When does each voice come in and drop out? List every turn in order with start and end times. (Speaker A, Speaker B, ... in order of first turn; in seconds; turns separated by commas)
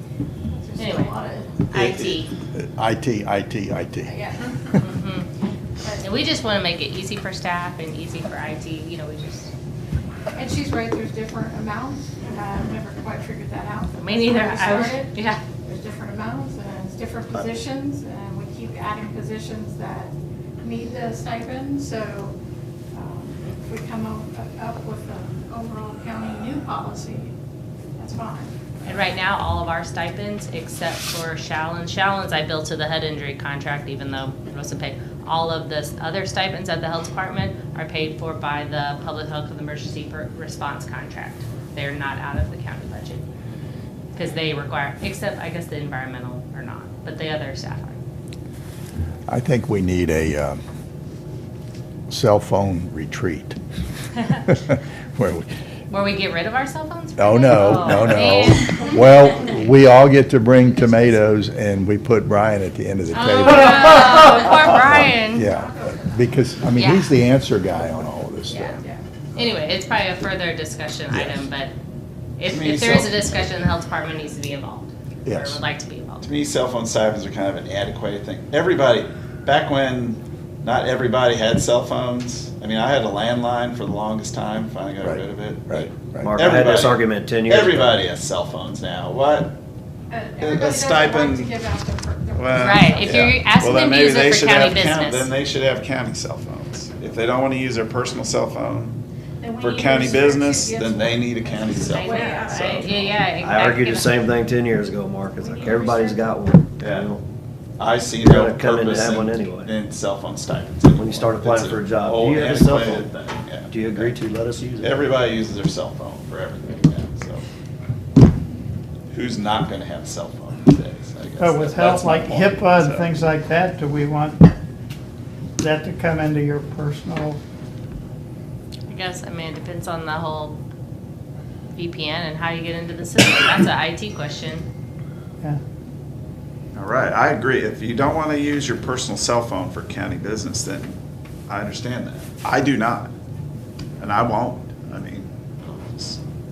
Speaker A: 0.5-1.6, Speaker B: 0.8-1.1, Speaker B: 1.7-2.3, Speaker C: 1.7-2.2, Speaker D: 2.5-4.1, Speaker A: 4.0-4.6, Speaker B: 4.7-5.3, Speaker B: 6.0-9.5, Speaker A: 10.3-22.4, Speaker B: 14.0-15.4, Speaker A: 22.9-27.3, Speaker A: 28.0-28.6, Speaker B: 28.8-43.2, Speaker B: 44.1-48.0, Speaker D: 49.3-50.6, Speaker D: 52.1-53.6, Speaker D: 54.4-55.5, Speaker B: 55.9-58.9, Speaker D: 57.2-68.7, Speaker B: 60.6-61.2, Speaker B: 63.1-65.5, Speaker A: 63.7-66.2, Speaker B: 66.8-67.1, Speaker B: 68.5-68.8, Speaker A: 68.5-69.0, Speaker B: 69.3-71.7, Speaker D: 71.1-71.4, Speaker B: 72.4-76.3, Speaker C: 72.4-73.2, Speaker D: 75.2-75.6, Speaker C: 76.2-89.6, Speaker D: 85.0-86.4, Speaker E: 86.2-88.0, Speaker A: 90.1-93.2, Speaker C: 90.4-91.6, Speaker C: 92.3-99.0, Speaker B: 92.5-95.3, Speaker A: 99.4-102.9, Speaker C: 99.6-103.2, Speaker B: 101.8-104.2, Speaker E: 103.4-107.2, Speaker A: 105.4-106.3, Speaker C: 106.8-107.1, Speaker C: 107.8-114.1, Speaker E: 108.2-109.7, Speaker E: 111.0-113.1, Speaker E: 113.7-115.1, Speaker C: 114.8-117.4, Speaker C: 119.1-123.1, Speaker F: 121.4-124.5, Speaker F: 125.6-127.4, Speaker B: 128.9-130.6, Speaker B: 131.8-134.7, Speaker C: 136.7-143.1, Speaker C: 144.0-146.2